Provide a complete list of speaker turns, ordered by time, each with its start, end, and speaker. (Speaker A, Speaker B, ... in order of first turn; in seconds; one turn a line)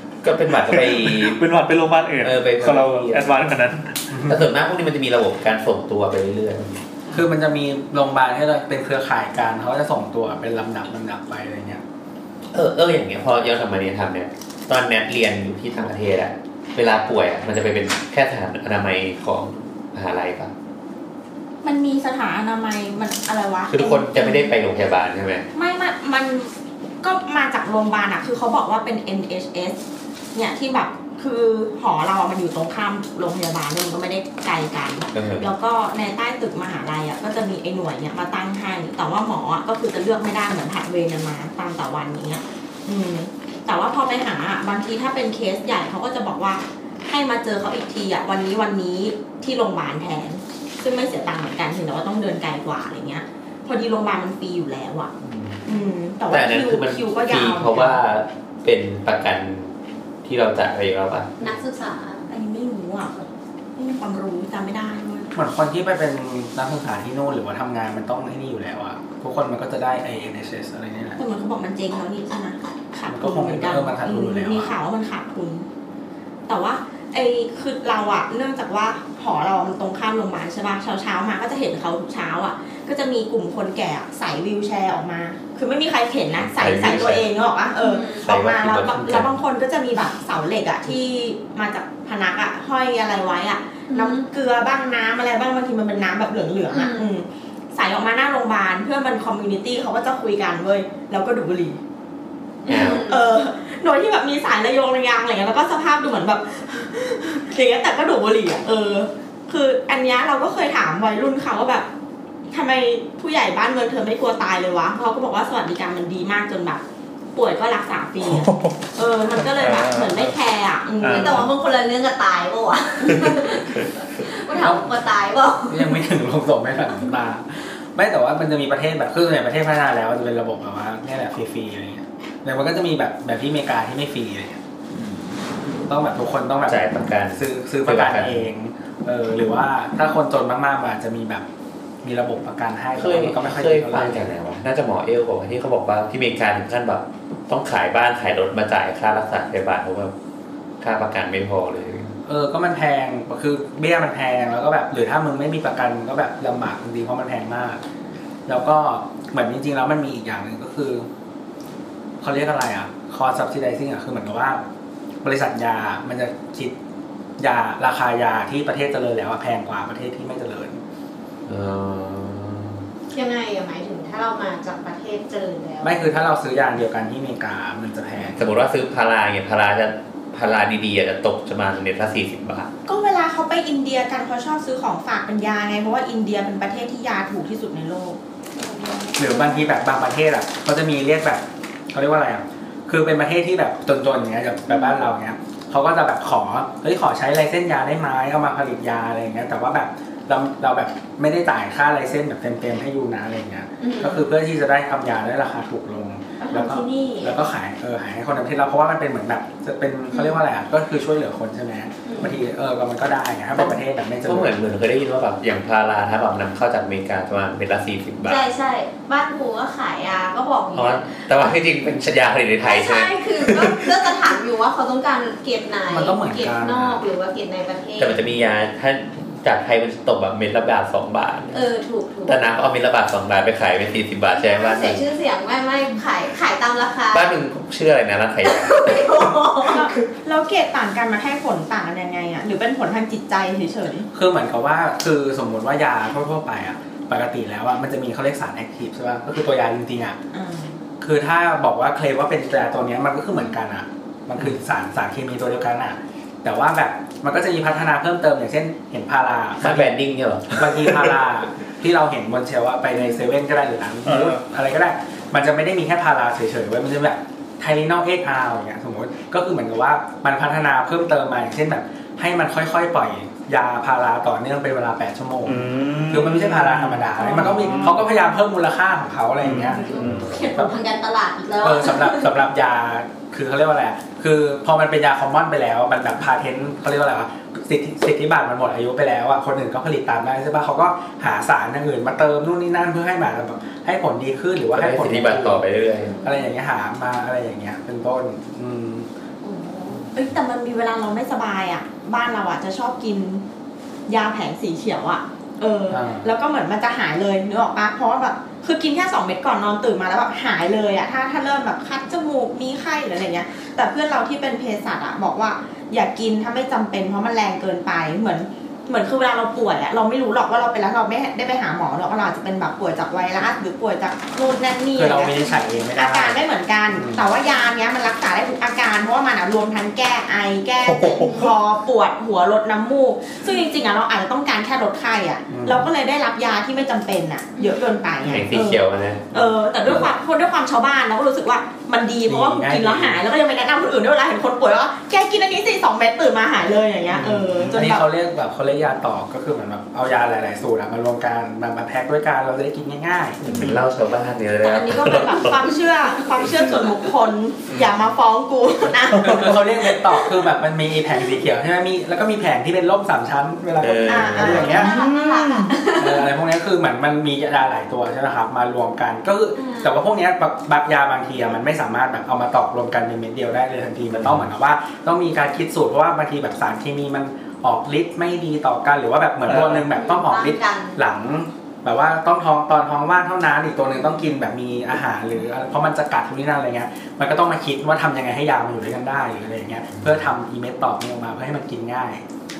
Speaker A: 0.2-1.4
Speaker B: 0.5-4.0
Speaker A: 2.2-3.4
Speaker C: 4.1-4.4
Speaker A: 4.2-6.8
Speaker C: 7.1-11.8
Speaker A: 12.5-20.5
Speaker D: 21.6-24.6
Speaker A: 23.7-25.4
Speaker D: 25.5-29.8
Speaker D: 30.3-55.1
Speaker A: 35.1-35.5
Speaker A: 55.2-55.6
Speaker D: 55.6-58.0
Speaker A: 56.3-59.7
Speaker A: 60.2-61.3
Speaker E: 61.4-62.2
Speaker D: 62.3-63.1
Speaker D: 63.8-65.3
Speaker C: 65.3-71.2
Speaker D: 71.2-75.7
Speaker C: 73.1-74.7
Speaker D: 76.5-101.8
Speaker A: 86.4-87.3
Speaker E: 87.8-88.2
Speaker A: 88.2-89.3
Speaker E: 93.9-94.2
Speaker E: 96.7-97.1
Speaker E: 102.6-103.3
Speaker A: 102.7-103.1
Speaker D: 102.7-111.9
Speaker D: 112.5-116.8
Speaker D: 117.3-121.4
Speaker B: 118.2-118.8
Speaker B: 119.4-120.3
Speaker B: 121.0-121.5
Speaker E: 121.0-126.0
Speaker C: 124.5-124.8
Speaker C: 125.7-134.6
Speaker A: 134.9-135.4
Speaker C: 135.9-141.4
Speaker A: 136.7-138.4
Speaker C: 142.0-144.3
Speaker A: 142.9-150.1
Speaker A: 150.8-152.1
Speaker C: 152.2-157.8
Speaker C: 158.5-161.1
Speaker C: 162.2-164.6
Speaker C: 165.2-166.7
Speaker C: 167.4-170.8
Speaker A: 171.5-172.8
Speaker E: 173.1-176.1
Speaker C: 175.8-178.4
Speaker A: 178.3-182.7
Speaker D: 182.8-188.2
Speaker E: 188.6-189.7
Speaker C: 189.1-214.5
Speaker E: 194.7-195.0
Speaker E: 203.8-204.3
Speaker E: 206.4-207.4
Speaker E: 210.1-210.4
Speaker E: 212.1-212.4
Speaker A: 214.2-218.4
Speaker E: 218.2-221.1
Speaker A: 220.7-224.0
Speaker E: 222.6-228.3
Speaker C: 225.9-227.0
Speaker A: 228.0-231.6
Speaker E: 231.5-232.4
Speaker A: 232.2-235.0
Speaker E: 234.3-237.3
Speaker A: 237.1-239.1
Speaker E: 238.4-240.0
Speaker D: 239.7-244.1
Speaker C: 244.1-250.2
Speaker D: 250.3-250.8
Speaker C: 251.0-259.9
Speaker A: 259.6-261.1
Speaker C: 260.5-279.9
Speaker E: 262.9-263.2
Speaker B: 264.1-264.4
Speaker B: 275.4-278.0
Speaker E: 277.2-277.9
Speaker B: 279.4-280.2
Speaker E: 279.7-282.3
Speaker A: 279.9-280.5
Speaker C: 280.5-280.8
Speaker C: 281.6-295.6
Speaker A: 294.7-296.2
Speaker E: 296.0-296.5
Speaker C: 296.2-299.1
Speaker E: 299.4-300.1
Speaker D: 300.1-303.4
Speaker D: 304.1-348.1
Speaker C: 305.9-306.3
Speaker C: 324.9-326.4
Speaker C: 326.9-327.3
Speaker B: 330.8-331.5
Speaker E: 333.4-333.8
Speaker C: 335.5-335.9
Speaker E: 337.6-337.8
Speaker A: 338.2-340.0
Speaker C: 342.3-343.2
Speaker C: 347.1-353.4
Speaker A: 353.4-355.7
Speaker B: 353.5-353.8
Speaker D: 354.6-359.5
Speaker B: 359.1-359.6
Speaker C: 359.2-365.0
Speaker A: 363.8-364.7
Speaker D: 364.1-364.9
Speaker E: 364.4-366.3
Speaker B: 364.8-365.7
Speaker C: 365.9-392.2
Speaker E: 369.6-369.9
Speaker A: 374.1-374.4
Speaker B: 379.4-379.8
Speaker E: 379.7-381.0